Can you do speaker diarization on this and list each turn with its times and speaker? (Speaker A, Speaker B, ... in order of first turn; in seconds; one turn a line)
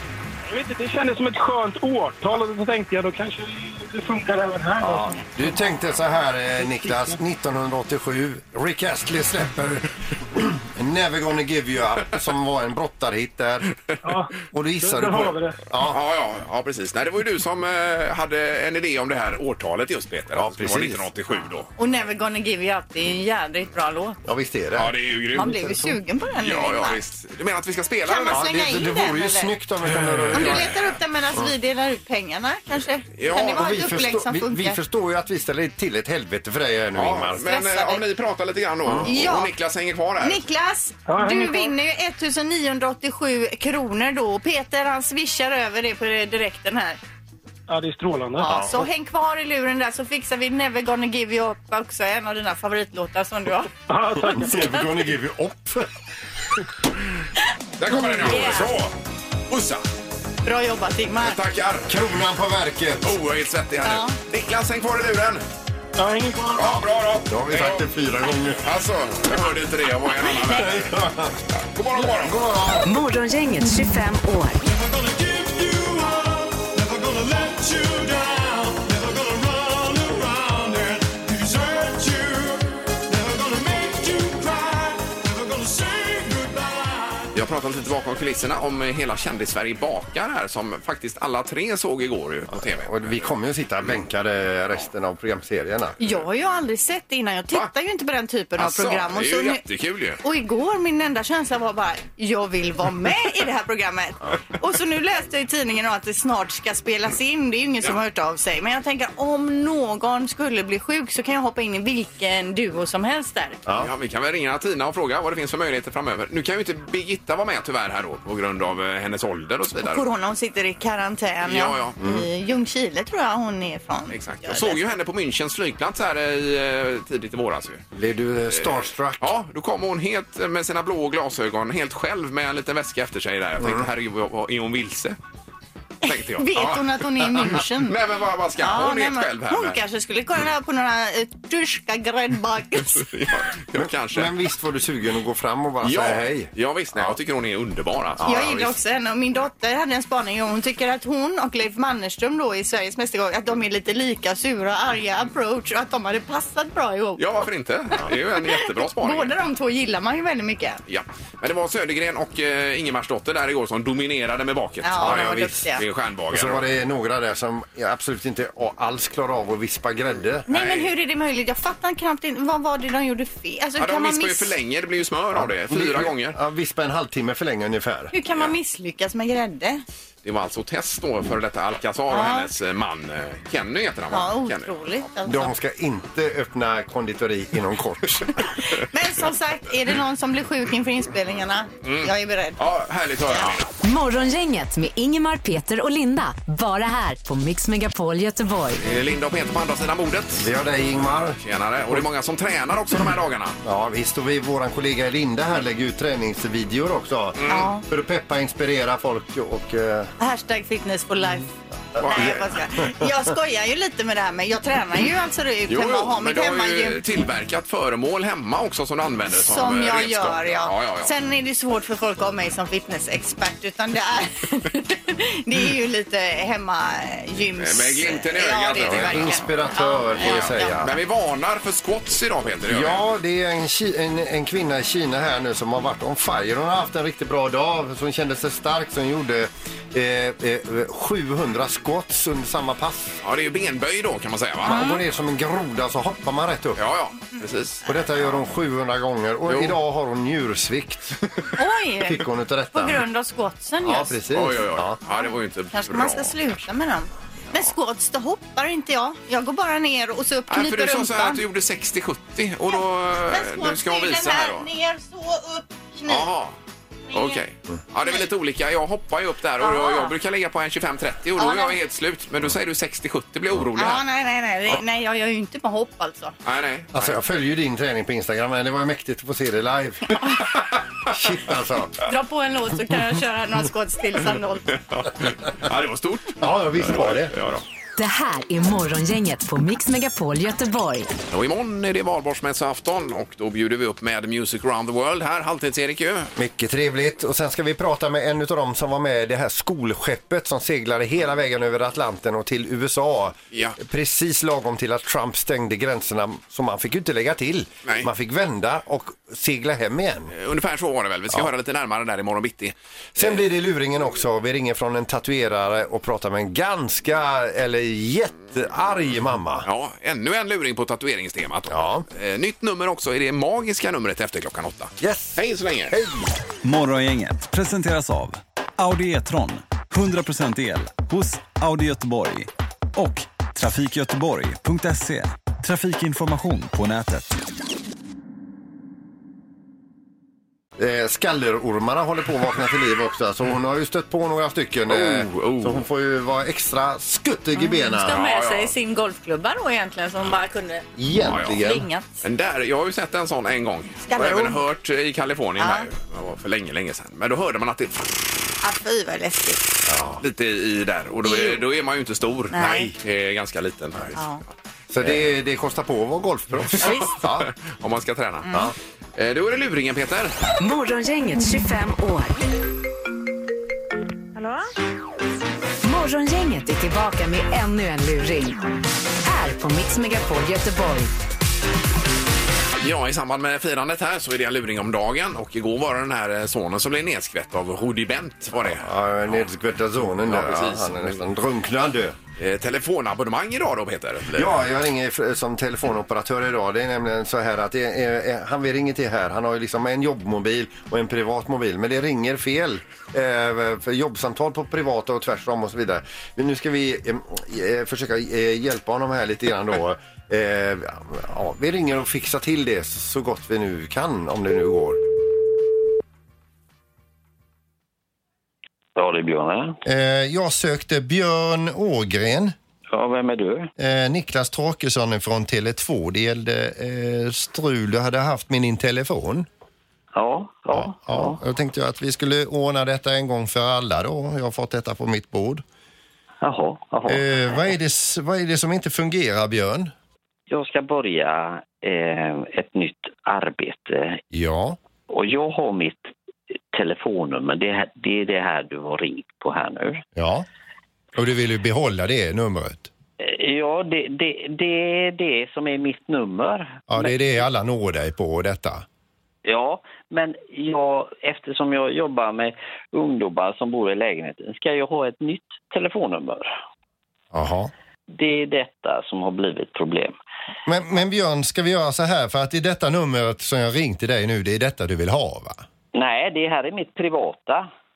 Speaker A: 0.5-5.1
Speaker B: 4.8-13.7
Speaker A: 6.6-7.2
Speaker A: 14.0-15.6
Speaker B: 14.5-16.0
Speaker C: 15.9-21.7
Speaker B: 20.3-21.1
Speaker D: 21.8-24.2
Speaker B: 24.2-25.9
Speaker C: 24.8-25.8
Speaker D: 25.4-27.0
Speaker C: 26.4-28.4
Speaker D: 28.1-29.5
Speaker B: 28.3-30.7
Speaker C: 29.9-30.8
Speaker D: 30.3-34.8
Speaker C: 33.2-33.6
Speaker B: 33.3-37.5
Speaker C: 37.0-40.4
Speaker D: 37.5-38.0
Speaker B: 38.9-39.1
Speaker D: 39.0-39.5
Speaker D: 40.2-47.0
Speaker A: 41.1-41.7
Speaker A: 47.7-48.6
Speaker D: 48.4-53.7
Speaker B: 48.5-48.9
Speaker A: 53.9-54.6
Speaker B: 54.2-55.9
Speaker C: 57.8-58.9
Speaker B: 58.0-58.5
Speaker D: 58.2-58.7
Speaker C: 59.5-59.8
Speaker D: 60.5-61.4
Speaker C: 61.2-62.0
Speaker B: 61.9-63.2
Speaker C: 63.0-65.4
Speaker D: 63.9-64.2
Speaker A: 66.0-66.8
Speaker C: 66.5-67.8
Speaker B: 67.3-68.7
Speaker C: 68.6-71.0
Speaker B: 70.4-71.4
Speaker C: 71.7-72.4
Speaker B: 71.9-72.9
Speaker E: 72.8-74.6
Speaker A: 75.0-82.5
Speaker A: 83.1-86.7
Speaker C: 87.3-93.3
Speaker B: 92.5-96.0
Speaker D: 96.0-99.6
Speaker C: 98.6-100.2
Speaker D: 100.2-113.6
Speaker B: 113.7-113.9
Speaker C: 113.8-120.0
Speaker D: 119.8-124.9
Speaker C: 121.5-122.0
Speaker B: 122.0-122.2
Speaker C: 124.1-127.8
Speaker B: 128.0-129.3
Speaker C: 128.5-135.2
Speaker B: 133.6-133.9
Speaker D: 136.0-138.0
Speaker C: 136.1-139.8
Speaker D: 138.6-143.1
Speaker C: 142.9-144.3
Speaker B: 143.8-147.2
Speaker C: 145.8-148.8
Speaker B: 148.2-148.5
Speaker D: 148.2-157.2
Speaker C: 157.2-159.3
Speaker D: 158.4-160.8
Speaker C: 160.9-166.6
Speaker D: 164.8-165.8
Speaker B: 165.0-165.7
Speaker B: 166.3-170.5
Speaker D: 170.5-174.6
Speaker C: 170.5-170.9
Speaker C: 173.8-176.4
Speaker B: 175.3-178.1
Speaker D: 178.1-179.8
Speaker C: 180.2-184.7
Speaker D: 182.1-182.5
Speaker D: 184.1-185.5
Speaker B: 185.3-188.4
Speaker D: 188.6-192.6
Speaker C: 191.8-193.7
Speaker E: 193.8-198.8
Speaker C: 198.8-200.5
Speaker B: 200.4-201.4
Speaker C: 201.4-203.6
Speaker B: 203.6-210.1
Speaker C: 207.4-207.7
Speaker D: 207.5-207.8
Speaker D: 210.2-217.0
Speaker B: 212.0-212.4
Speaker C: 212.0-212.5
Speaker C: 215.7-221.1
Speaker D: 219.3-230.8
Speaker C: 227.6-229.6
Speaker B: 228.8-231.0
Speaker C: 230.2-233.0
Speaker B: 232.7-243.2
Speaker C: 243.2-244.8
Speaker B: 244.6-246.8
Speaker D: 244.7-245.0
Speaker C: 246.8-248.3
Speaker B: 247.9-251.2
Speaker C: 249.5-249.8
Speaker D: 251.6-254.2
Speaker B: 252.1-253.0
Speaker B: 253.8-255.0
Speaker C: 254.3-256.3
Speaker D: 255.1-261.4
Speaker C: 260.5-264.7
Speaker D: 263.3-266.3
Speaker C: 266.1-266.6
Speaker D: 267.1-267.4
Speaker C: 267.1-274.0
Speaker D: 269.6-270.1
Speaker D: 271.4-271.8
Speaker D: 273.8-276.4
Speaker C: 276.4-277.1
Speaker B: 276.9-280.2
Speaker B: 281.1-282.0
Speaker D: 282.0-284.7
Speaker C: 284.7-287.6
Speaker B: 286.4-287.3
Speaker E: 288.0-291.1
Speaker C: 291.3-296.3
Speaker B: 296.4-310.3
Speaker C: 310.3-313.4
Speaker B: 313.2-319.7
Speaker C: 319.6-325.9
Speaker B: 321.7-322.1
Speaker B: 325.0-326.4
Speaker F: 326.6-337.4
Speaker B: 340.8-348.2
Speaker C: 344.9-345.8
Speaker D: 347.6-350.9
Speaker C: 348.1-348.7
Speaker B: 351.0-351.9
Speaker C: 351.3-351.6
Speaker D: 351.6-352.2
Speaker C: 352.2-358.3
Speaker D: 354.1-354.6
Speaker D: 355.6-355.9
Speaker D: 358.6-359.6
Speaker B: 359.9-360.2
Speaker C: 360.2-364.3
Speaker D: 361.2-361.6
Speaker D: 362.5-362.9
Speaker D: 364.2-364.4
Speaker B: 364.9-367.5
Speaker C: 365.0-365.3
Speaker C: 366.7-368.5
Speaker D: 366.8-367.1
Speaker D: 368.5-368.7
Speaker C: 369.2-370.4
Speaker E: 370.6-372.4
Speaker E: 375.8-378.6
Speaker E: 379.2-381.1
Speaker C: 382.8-389.4
Speaker B: 388.6-392.2
Speaker C: 390.2-391.2
Speaker C: 392.4-394.6
Speaker B: 394.3-415.0
Speaker G: 419.0-419.8
Speaker B: 419.9-422.6
Speaker G: 422.9-423.7
Speaker B: 423.8-429.5
Speaker G: 430.1-431.4
Speaker B: 430.7-435.6
Speaker G: 436.4-437.7
Speaker B: 437.1-439.9
Speaker G: 440.5-444.2
Speaker B: 444.3-444.8
Speaker G: 445.1-446.1
Speaker G: 446.7-450.0
Speaker B: 450.2-450.5
Speaker B: 451.1-452.9
Speaker G: 453.2-457.2
Speaker B: 456.9-458.9
Speaker G: 459.4-466.6
Speaker B: 467.3-467.7
Speaker G: 468.1-470.2
Speaker B: 470.7-475.6
Speaker G: 475.9-477.7